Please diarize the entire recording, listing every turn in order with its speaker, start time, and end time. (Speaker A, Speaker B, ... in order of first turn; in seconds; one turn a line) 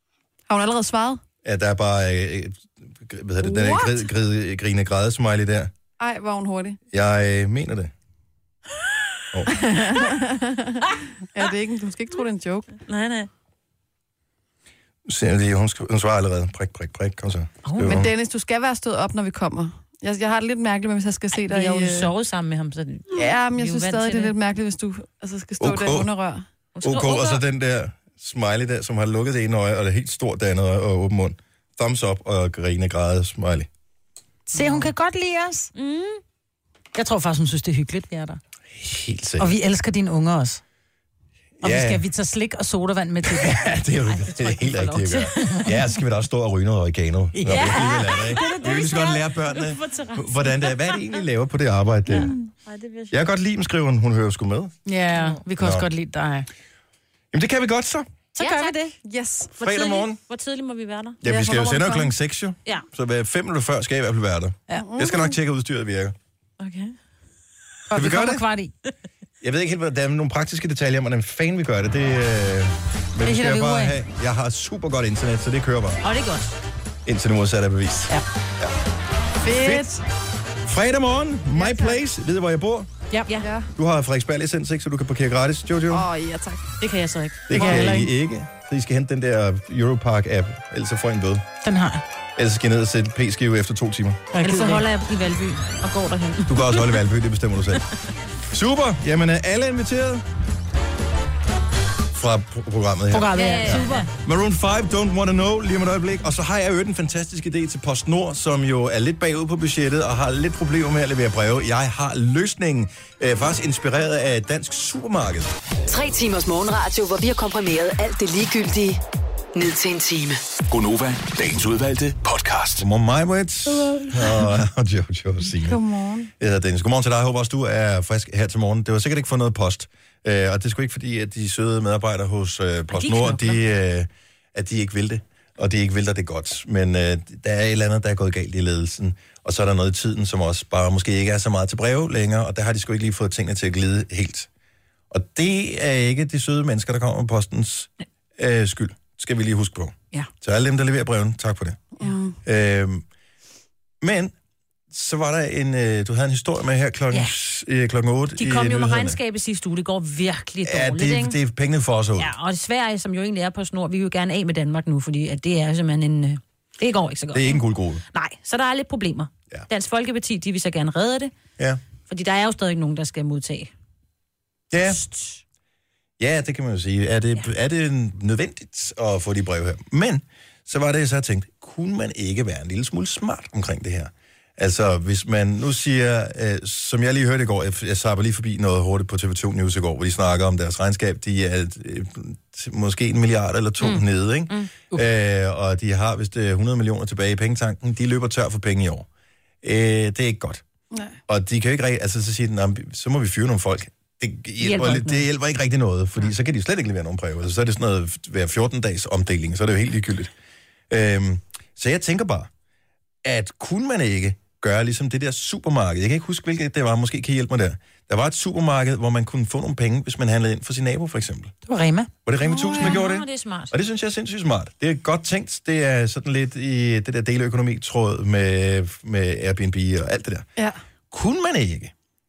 Speaker A: 0.5-1.2
Speaker B: 1.4-5.7
Speaker A: 3.4-4.1
Speaker A: 6.0-6.8
Speaker B: 6.9-7.9
Speaker A: 9.5-12.7
Speaker C: 12.9-13.3
Speaker B: 15.1-18.1
Speaker C: 17.6-18.1
Speaker A: 17.8-22.1
Speaker C: 21.3-24.3
Speaker A: 23.1-26.4
Speaker B: 25.6-26.1
Speaker C: 26.8-27.4
Speaker B: 26.8-33.7
Speaker D: 34.5-35.7
Speaker C: 34.6-34.9
Speaker C: 35.8-36.2
Speaker D: 37.0-38.4
Speaker B: 38.7-39.6
Speaker D: 39.4-40.6
Speaker B: 41.6-42.0
Speaker D: 41.6-43.8
Speaker B: 43.2-52.3
Speaker C: 44.4-45.6
Speaker D: 45.3-45.7
Speaker D: 47.3-48.6
Speaker C: 47.5-51.2
Speaker C: 52.6-53.2
Speaker B: 53.1-54.8
Speaker D: 54.9-56.5
Speaker B: 55.6-55.9
Speaker B: 57.3-58.1
Speaker D: 58.4-58.8
Speaker C: 58.4-58.9
Speaker A: 59.0-59.5
Speaker C: 59.5-61.2
Speaker B: 59.6-60.2
Speaker B: 61.2-66.2
Speaker A: 61.2-62.1
Speaker A: 64.7-65.3
Speaker C: 66.6-67.0
Speaker D: 67.9-68.7
Speaker B: 67.9-68.4
Speaker B: 69.4-76.0
Speaker D: 73.2-74.0
Speaker C: 76.0-76.6
Speaker B: 77.1-78.8
Speaker A: 79.4-80.0
Speaker B: 79.5-79.9
Speaker B: 80.7-82.9
Speaker A: 81.5-82.0
Speaker A: 83.4-83.7
Speaker B: 83.8-86.1
Speaker A: 85.9-86.7
Speaker C: 86.8-87.8
Speaker D: 87.5-88.1
Speaker B: 87.5-91.5
Speaker D: 91.6-92.0
Speaker B: 92.4-94.2
Speaker D: 94.3-94.8
Speaker C: 94.4-97.0
Speaker B: 96.5-97.9
Speaker B: 98.5-100.2
Speaker B: 102.1-115.5
Speaker D: 103.1-104.1
Speaker C: 103.3-104.1
Speaker E: 115.9-119.0
Speaker E: 119.5-120.4
Speaker F: 120.7-122.8
Speaker B: 122.8-125.8
Speaker A: 125.6-126.3
Speaker B: 126.4-144.5
Speaker C: 132.9-133.6
Speaker B: 145.1-151.8
Speaker A: 152.0-152.4
Speaker B: 152.4-153.1
Speaker B: 154.0-154.3
Speaker B: 154.9-159.2
Speaker C: 158.4-161.4
Speaker B: 160.7-162.3
Speaker C: 162.2-171.3
Speaker B: 167.3-168.0
Speaker C: 172.1-173.7
Speaker B: 174.7-175.0
Speaker C: 174.9-175.4
Speaker B: 176.2-199.1
Speaker C: 193.8-194.7
Speaker B: 199.6-200.6
Speaker B: 201.3-210.3
Speaker C: 204.6-205.2
Speaker B: 210.9-212.5
Speaker B: 213.2-221.5
Speaker D: 221.7-222.1
Speaker B: 222.3-230.5
Speaker A: 222.4-223.0
Speaker C: 222.8-223.7
Speaker B: 231.1-231.9